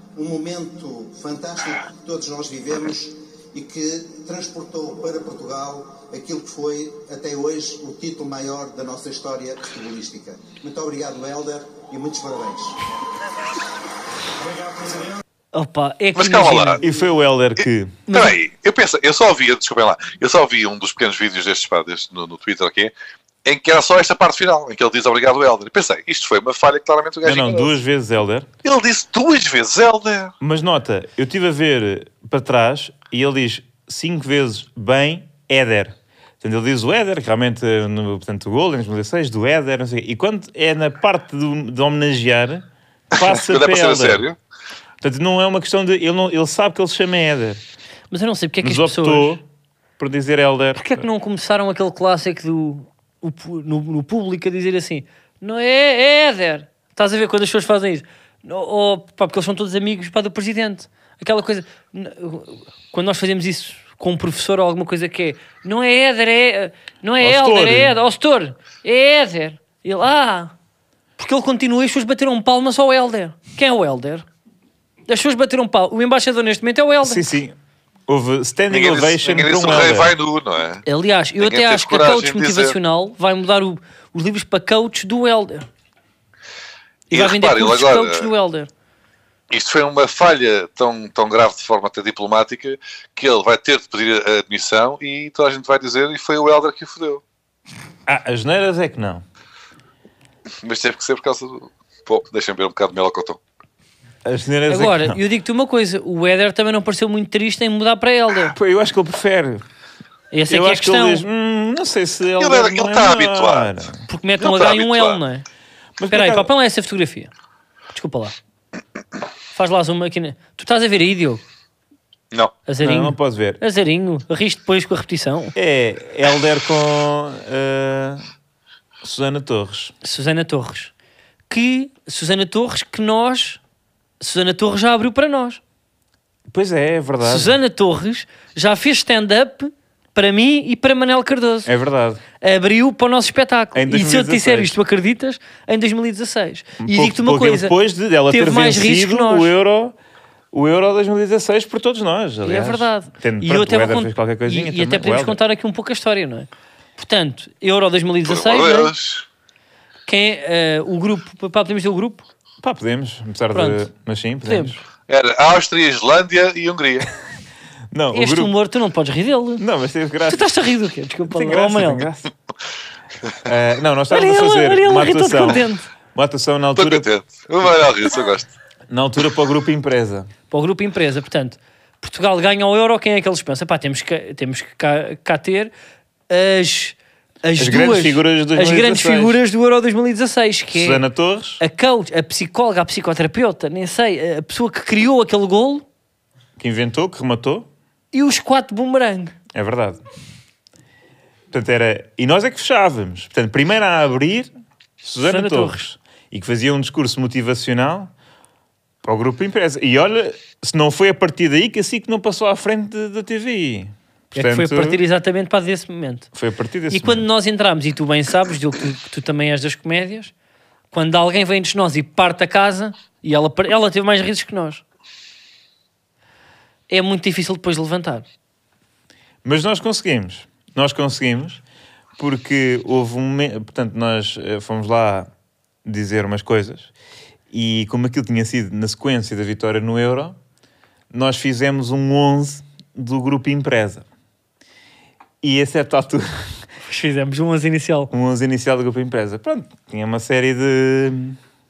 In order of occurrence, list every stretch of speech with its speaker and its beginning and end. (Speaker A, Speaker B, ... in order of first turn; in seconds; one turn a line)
Speaker A: 0.1-12.8
Speaker A: 14.5-15.2
Speaker B: 15.5-16.8
Speaker C: 16.1-16.8
Speaker D: 16.8-18.1
Speaker B: 18.1-18.4
Speaker C: 18.1-22.9
Speaker C: 23.4-27.8
Speaker D: 27.2-28.5
Speaker C: 28.6-30.3
Speaker D: 30.4-44.2
Speaker C: 43.2-44.4
Speaker D: 45.0-47.6
Speaker B: 48.1-49.4
Speaker D: 48.6-49.4
Speaker D: 50.0-51.1
Speaker B: 50.8-70.5
Speaker D: 67.2-67.9
Speaker B: 71.2-74.2
Speaker B: 75.1-77.2
Speaker D: 77.0-77.5
Speaker D: 78.1-80.1
Speaker C: 78.7-80.8
Speaker B: 80.9-85.7
Speaker C: 81.4-82.8
Speaker C: 87.1-88.3
Speaker B: 87.1-88.7
Speaker C: 89.5-97.2
Speaker D: 98.1-99.2
Speaker C: 100.6-103.4
Speaker D: 104.2-105.2
Speaker B: 104.7-108.6
Speaker D: 108.5-109.6
Speaker B: 110.3-111.2
Speaker D: 110.5-114.0
Speaker C: 112.4-113.8
Speaker B: 114.1-115.5
Speaker C: 114.4-115.2
Speaker D: 116.0-116.5
Speaker B: 116.1-117.3
Speaker B: 117.9-118.3
Speaker B: 119.5-121.4
Speaker B: 122.7-125.5
Speaker D: 122.8-123.6
Speaker D: 125.5-128.2
Speaker D: 129.0-129.9
Speaker B: 130.0-130.9
Speaker B: 131.5-133.6
Speaker B: 134.2-135.6
Speaker D: 136.5-137.6
Speaker B: 137.2-141.7
Speaker D: 141.7-142.2
Speaker B: 142.4-147.8
Speaker D: 143.8-144.8
Speaker D: 146.8-149.9
Speaker B: 148.3-149.5
Speaker D: 150.5-155.4
Speaker B: 152.4-158.9
Speaker C: 158.2-159.2
Speaker B: 160.1-162.3
Speaker D: 162.6-164.8
Speaker B: 163.5-163.8
Speaker B: 164.5-164.8
Speaker C: 165.1-167.1
Speaker D: 167.9-168.5
Speaker B: 168.1-169.6
Speaker D: 169.6-170.5
Speaker B: 170.3-172.1
Speaker D: 171.2-172.3
Speaker D: 173.4-177.1
Speaker B: 174.1-175.8
Speaker C: 176.8-178.5
Speaker D: 178.9-180.3
Speaker B: 180.5-185.7
Speaker B: 186.3-191.0
Speaker D: 187.6-189.4
Speaker D: 190.7-191.6
Speaker B: 191.6-195.8
Speaker D: 196.6-197.7
Speaker B: 198.1-199.3
Speaker D: 199.5-200.0
Speaker D: 201.5-204.5
Speaker D: 205.0-208.1
Speaker B: 205.2-205.9
Speaker D: 209.0-215.0
Speaker B: 214.3-216.3
Speaker D: 216.3-217.2
Speaker B: 216.9-220.3
Speaker B: 220.9-224.8
Speaker B: 226.9-228.3
Speaker D: 229.4-231.6
Speaker D: 232.2-235.3
Speaker D: 235.8-236.9
Speaker D: 237.5-240.4
Speaker D: 241.1-244.1
Speaker D: 245.4-246.6
Speaker B: 246.8-248.1
Speaker D: 248.1-251.4